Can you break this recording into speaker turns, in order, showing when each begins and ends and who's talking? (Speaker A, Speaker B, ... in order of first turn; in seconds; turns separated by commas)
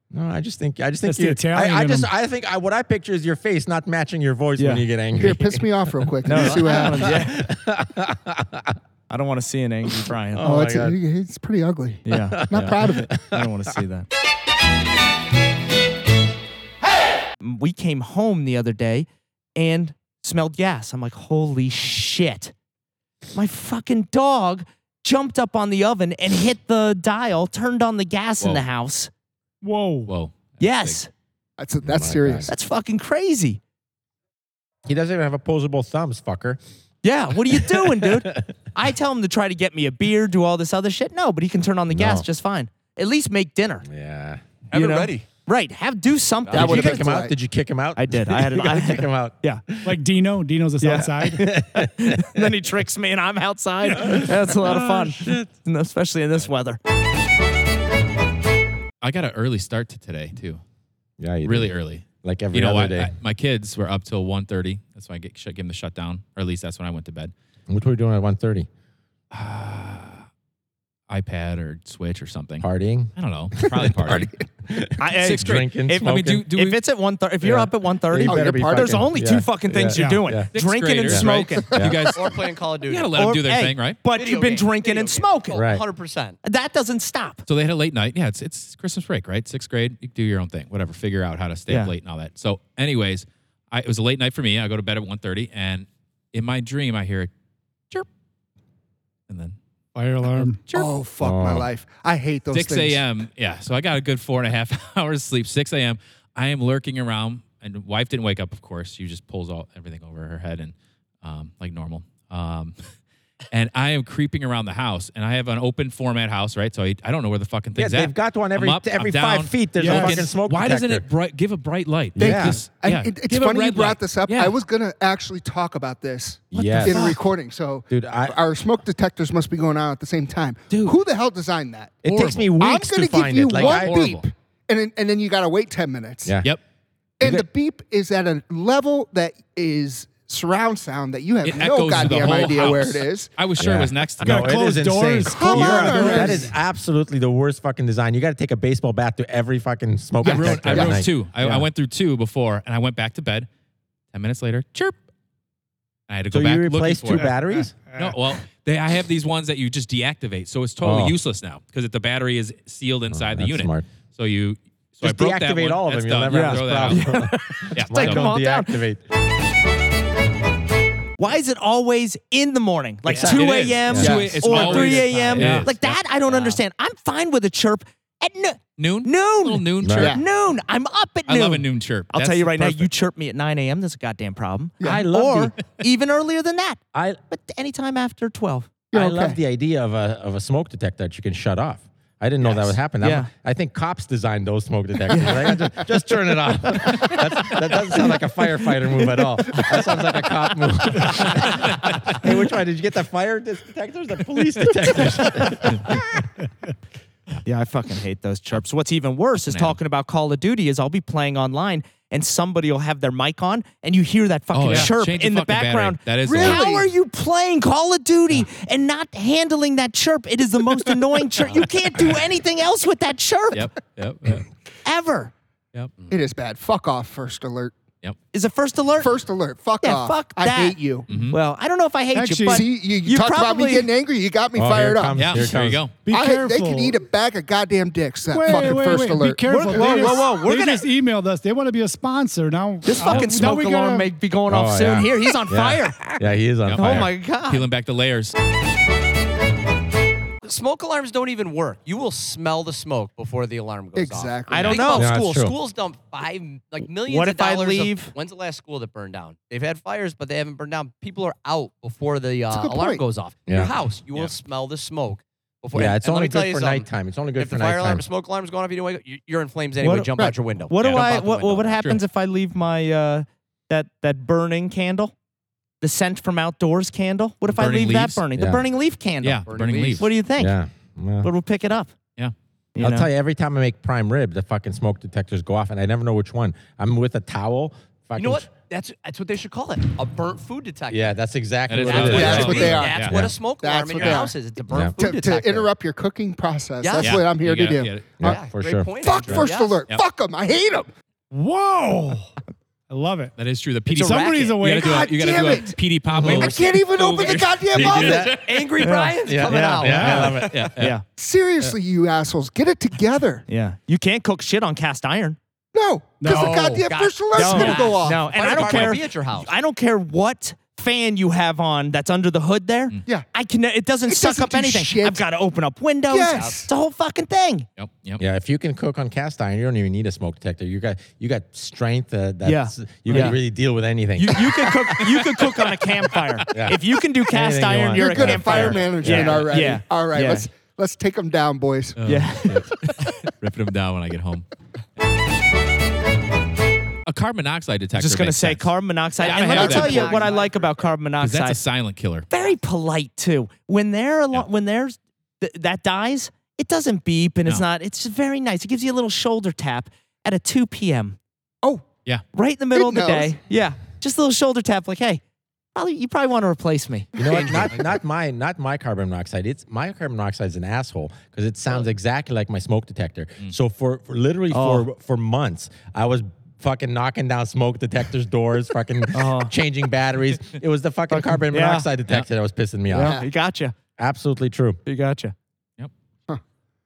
Speaker A: 0.1-8.8, Speaker B: 1.0-2.1, Speaker C: 4.6-4.9, Speaker D: 5.2-7.2, Speaker C: 6.2-7.5, Speaker C: 9.1-10.6, Speaker A: 10.3-11.0, Speaker D: 10.4-13.1, Speaker C: 12.1-14.1, Speaker A: 12.3-13.4, Speaker C: 17.4-22.5, Speaker C: 23.3-29.1, Speaker B: 29.6-30.1, Speaker E: 30.1-31.0, Speaker C: 30.6-31.1, Speaker D: 31.6-32.5, Speaker A: 31.8-32.5, Speaker C: 32.5-33.6, Speaker A: 34.9-36.6, Speaker C: 37.0-43.9, Speaker A: 37.7-38.1, Speaker A: 41.9-42.3, Speaker A: 43.9-44.4, Speaker F: 44.7-45.3, Speaker C: 44.7-47.2, Speaker F: 46.5-46.8, Speaker D: 46.5-47.4, Speaker A: 46.5-50.0, Speaker C: 48.0-49.6, Speaker B: 49.8-51.5, Speaker C: 50.8-56.8, Speaker A: 51.2-52.5, Speaker A: 53.9-55.5, Speaker E: 59.0-60.6, Speaker A: 61.2-63.1, Speaker E: 61.4-67.3, Speaker A: 67.7-68.7, Speaker E: 69.3-70.3, Speaker E: 71.1-74.3, Speaker A: 72.6-73.1, Speaker D: 73.7-74.3, Speaker A: 74.7-76.5, Speaker C: 75.0-81.8, Speaker E: 75.2-76.8, Speaker A: 77.4-80.5, Speaker D: 78.2-79.0, Speaker B: 80.0-80.2, Speaker E: 80.5-84.0, Speaker A: 81.0-82.1, Speaker F: 82.2-83.4, Speaker C: 83.2-85.6, Speaker F: 84.1-86.4, Speaker A: 85.6-85.8, Speaker C: 86.4-87.4, Speaker E: 87.5-97.3, Speaker E: 99.3-99.6, Speaker B: 100.0-100.6, Speaker E: 100.2-101.0, Speaker D: 100.7-103.0, Speaker A: 101.2-101.7, Speaker E: 102.5-112.8, Speaker E: 113.5-124.5, Speaker A: 117.8-121.1, Speaker B: 119.8-120.2, Speaker A: 122.2-122.6, Speaker D: 122.2-131.9, Speaker A: 126.5-127.1, Speaker E: 126.6-126.9, Speaker C: 126.9-127.1, Speaker A: 127.9-128.4, Speaker A: 132.0-134.2, Speaker E: 132.1-132.5, Speaker D: 132.6-136.3, Speaker E: 133.5-134.3, Speaker A: 136.2-136.5, Speaker D: 137.2-143.3, Speaker E: 141.4-144.6, Speaker A: 143.6-151.2, Speaker B: 144.2-146.5, Speaker D: 145.3-146.5, Speaker D: 150.2-151.0, Speaker E: 150.2-153.5, Speaker E: 154.1-155.0, Speaker E: 156.1-167.2, Speaker A: 156.3-157.8, Speaker A: 160.8-161.2, Speaker A: 163.1-163.9, Speaker A: 165.0-169.0, Speaker C: 166.3-168.8, Speaker E: 167.7-168.3, Speaker C: 171.2-188.7, Speaker A: 173.1-174.2, Speaker E: 173.1-176.4, Speaker D: 174.0-175.4, Speaker A: 175.4-175.9, Speaker E: 178.8-180.2, Speaker A: 179.8-180.1, Speaker D: 180.0-180.2, Speaker E: 181.3-182.9, Speaker D: 184.8-185.1, Speaker A: 184.8-185.5, Speaker D: 188.9-189.4, Speaker A: 188.9-206.2, Speaker C: 192.4-193.3, Speaker C: 195.1-195.6, Speaker E: 204.9-206.0, Speaker C: 207.4-223.7, Speaker E: 209.5-209.8, Speaker E: 214.5-216.7, Speaker D: 216.3-216.9, Speaker E: 223.5-224.5, Speaker C: 224.8-225.3, Speaker E: 225.7-226.1, Speaker D: 226.1-227.7, Speaker C: 228.3-229.1, Speaker D: 229.0-231.1, Speaker C: 229.8-233.9, Speaker E: 231.1-231.4, Speaker B: 232.1-232.6, Speaker D: 232.5-235.5, Speaker A: 234.6-235.8, Speaker E: 235.1-236.0, Speaker B: 236.1-237.0, Speaker D: 236.1-240.0, Speaker B: 238.3-244.1, Speaker C: 238.5-240.9, Speaker C: 242.8-246.2, Speaker A: 244.5-247.1, Speaker E: 246.7-248.3, Speaker C: 246.8-247.7, Speaker F: 250.4-271.8, Speaker D: 253.9-254.7, Speaker C: 254.5-255.2, Speaker A: 254.9-255.6, Speaker C: 256.8-258.1, Speaker D: 262.5-263.0, Speaker A: 263.5-263.7, Speaker A: 265.7-268.1, Speaker C: 269.8-275.1, Speaker E: 270.8-271.1, Speaker E: 271.8-272.0, Speaker C: 275.8-279.4, Speaker E: 277.5-278.2, Speaker A: 278.4-278.7, Speaker E: 279.2-280.1, Speaker F: 279.5-280.2, Speaker C: 280.0-280.6, Speaker A: 280.4-281.3, Speaker C: 281.2-281.9, Speaker C: 282.8-283.1, Speaker A: 282.8-288.5, Speaker F: 288.2-291.2, Speaker A: 290.9-293.3, Speaker E: 291.7-293.2, Speaker F: 291.8-295.7, Speaker D: 291.9-298.3, Speaker E: 294.0-294.2, Speaker A: 294.7-295.0, Speaker F: 296.8-297.2, Speaker E: 297.0-298.3, Speaker F: 298.2-299.9, Speaker A: 298.2-299.5, Speaker D: 299.0-300.9, Speaker B: 301.3-302.3, Speaker B: 302.9-303.3, Speaker E: 303.4-308.6, Speaker F: 303.9-304.6, Speaker B: 303.9-305.1, Speaker D: 304.8-308.3, Speaker A: 306.1-306.6, Speaker A: 307.8-308.4, Speaker F: 308.0-310.7, Speaker C: 308.8-309.1, Speaker A: 309.2-310.6, Speaker E: 309.8-311.0, Speaker B: 309.9-310.3, Speaker C: 310.8-311.0, Speaker D: 311.2-313.4, Speaker C: 313.5-315.4, Speaker D: 315.7-318.9, Speaker B: 316.2-316.9, Speaker F: 316.7-319.5, Speaker C: 317.4-327.7, Speaker D: 324.1-325.2, Speaker D: 326.1-326.7, Speaker F: 326.3-326.6, Speaker E: 327.8-328.2, Speaker A: 328.2-334.7, Speaker C: 332.4-333.4, Speaker C: 334.1-340.5, Speaker A: 336.5-336.8, Speaker A: 337.3-339.5, Speaker D: 337.9-342.0, Speaker E: 342.0-344.5, Speaker C: 342.0-342.6, Speaker E: 347.1-348.7, Speaker C: 347.9-351.6, Speaker F: 349.2-350.9, Speaker E: 349.2-350.3, Speaker E: 351.2-352.3, Speaker C: 352.3-361.2, Speaker C: 362.3-365.2, Speaker D: 362.7-363.3, Speaker C: 365.8-367.7, Speaker A: 367.2-383.2, Speaker D: 367.2-367.7, Speaker C: 374.5-374.9, Speaker C: 379.1-379.5, Speaker C: 381.1-381.9, Speaker C: 382.9-383.8, Speaker A: 384.0-384.8, Speaker C: 384.9-385.3